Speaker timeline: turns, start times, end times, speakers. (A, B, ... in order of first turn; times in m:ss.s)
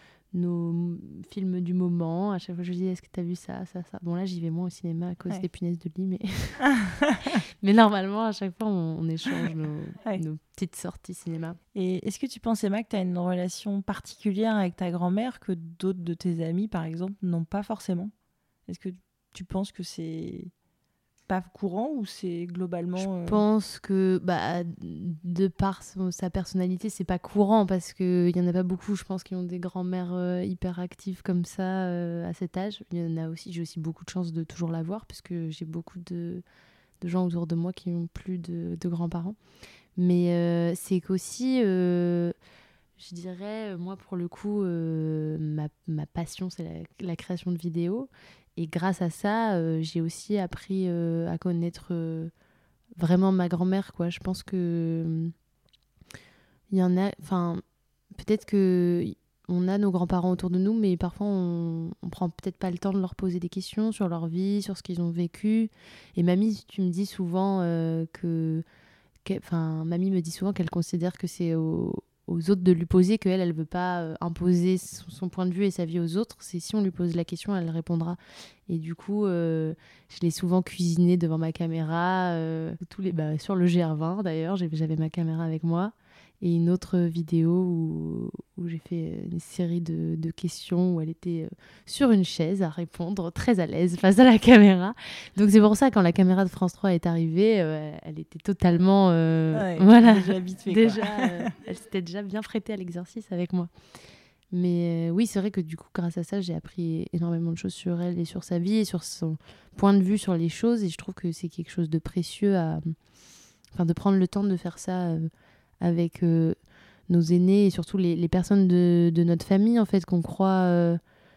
0:00.3-0:06.7 A
0:06.6-0:07.4 B
0:07.6-0:11.6 A
0:11.7-0:18.1 B
0:18.7-0:20.5 B
0:21.3-0:23.4 B
0:23.0-0:36.4 A
0:37.0-0:39.4 A
0:40.0-0:42.3 A
0:43.0-0:52.3 A
0:53.0-0:55.3 A
0:56.7-1:08.6 A
1:09.2-1:43.7 A
1:39.5-1:41.5 B
1:44.5-1:53.0 A
1:53.7-1:55.3 A
1:55.8-1:56.6 A
1:57.1-2:01.0 A